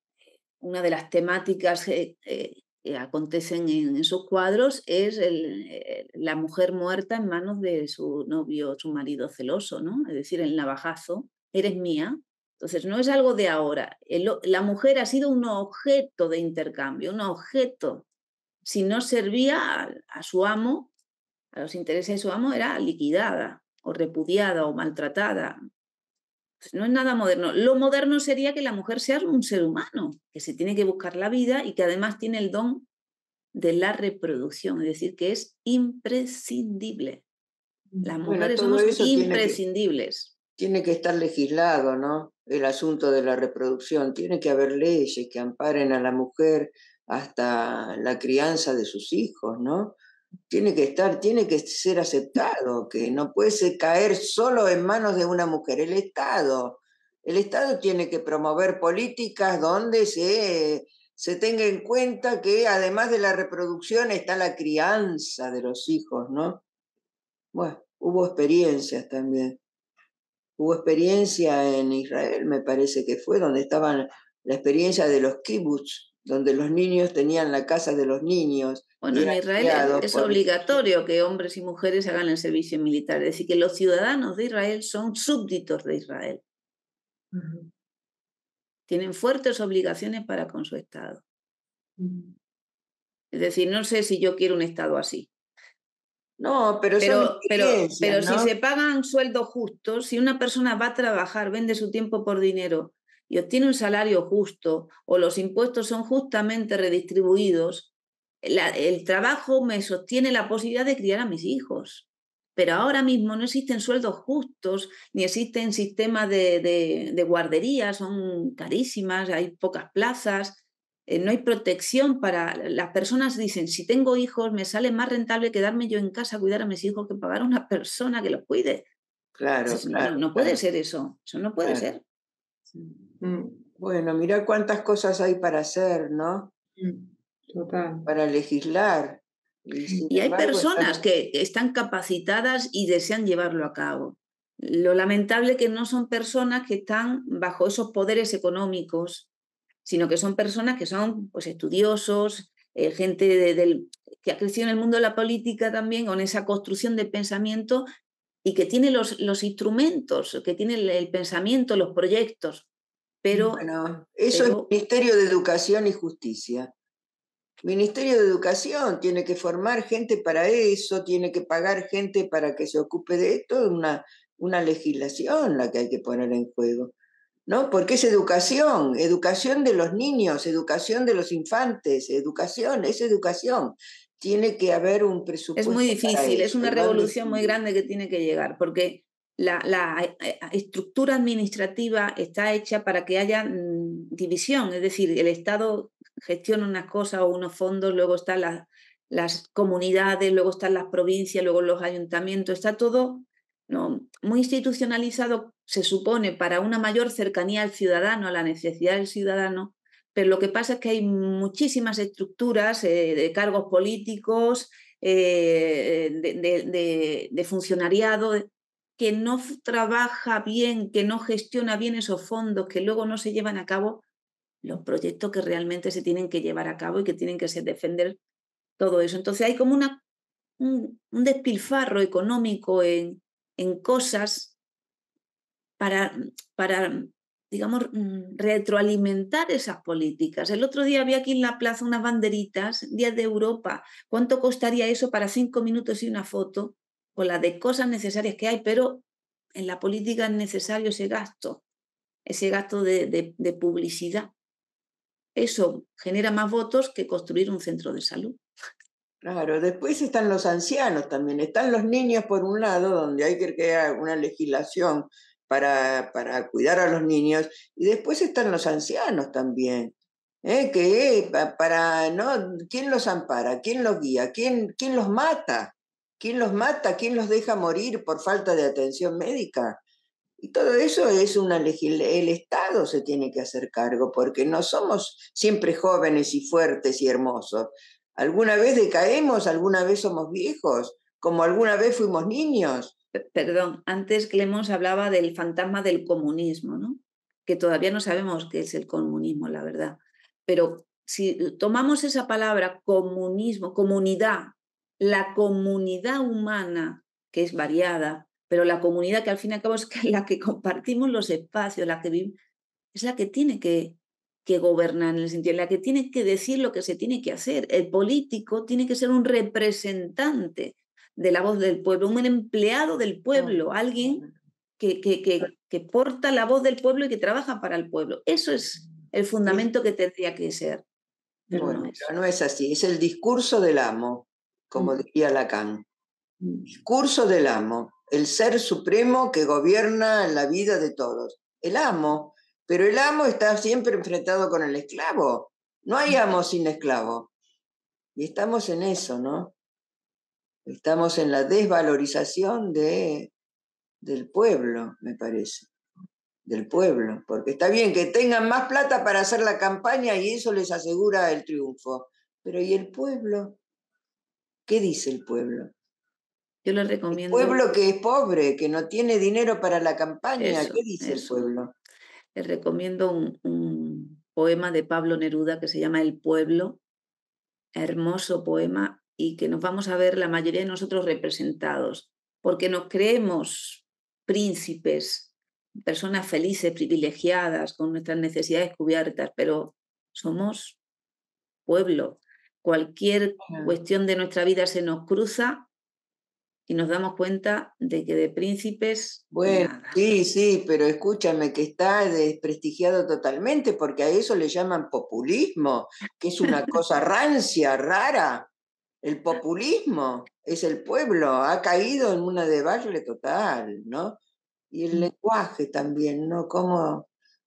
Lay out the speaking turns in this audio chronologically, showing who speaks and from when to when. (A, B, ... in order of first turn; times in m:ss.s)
0:00.6-0:18.0 A
0:18.6-0:20.9 A
0:21.5-0:25.6 A
0:26.6-0:32.9 A
0:33.5-0:37.2 A
0:38.0-0:40.3 A
0:38.2-0:39.6 B
0:40.6-0:49.9 B
0:50.5-1:06.6 B
1:07.5-1:09.6 B
1:10.6-1:20.8 B
1:19.0-1:26.4 A
1:27.3-1:27.7 C
1:28.9-1:31.2 A
1:32.0-1:32.3 C
1:33.3-1:35.3 A
1:36.4-1:38.5 B
1:37.0-1:47.9 A
1:48.4-2:08.8 A
2:09.4-2:10.6 B
2:09.6-2:12.0 A
2:11.6-2:11.9 B
2:12.7-2:13.6 C
2:13.8-2:16.5 B
2:16.8-2:18.1 C
2:18.0-2:21.0 B
2:20.1-2:29.3 A
2:29.8-2:37.8 A
2:38.4-2:42.7 A
2:43.2-2:43.6 A
2:43.3-2:46.7 B
2:44.3-2:44.7 A
2:47.6-2:56.9 B
2:57.5-3:07.6 B
3:05.6-3:44.0 A
3:44.6-3:48.2 A
3:48.8-3:50.0 A
3:50.6-3:54.5 A
3:55.8-4:11.6 A
4:12.2-4:14.3 A
4:15.3-4:18.4 A
4:19.2-4:39.8 B
4:40.4-4:52.9 B
4:53.1-5:12.3 A
5:12.9-5:24.2 A
5:23.3-5:24.3 B
5:24.8-5:30.8 A
5:31.5-5:32.1 A
5:31.5-5:35.8 B
5:36.7-5:47.3 B
5:48.2-5:49.5 B
5:50.6-5:53.3 B
5:54.0-5:55.7 B
5:56.4-6:03.6 B
6:04.7-6:05.7 B
6:06.6-6:07.6 A
6:07.1-6:11.7 B
6:10.4-6:11.5 A
6:12.3-6:16.8 A
6:17.7-6:30.8 A
6:31.6-6:35.7 A
6:33.5-6:33.7 B
6:36.7-6:40.1 A
6:39.3-6:48.5 B
6:49.0-6:54.2 B
6:54.7-6:57.1 B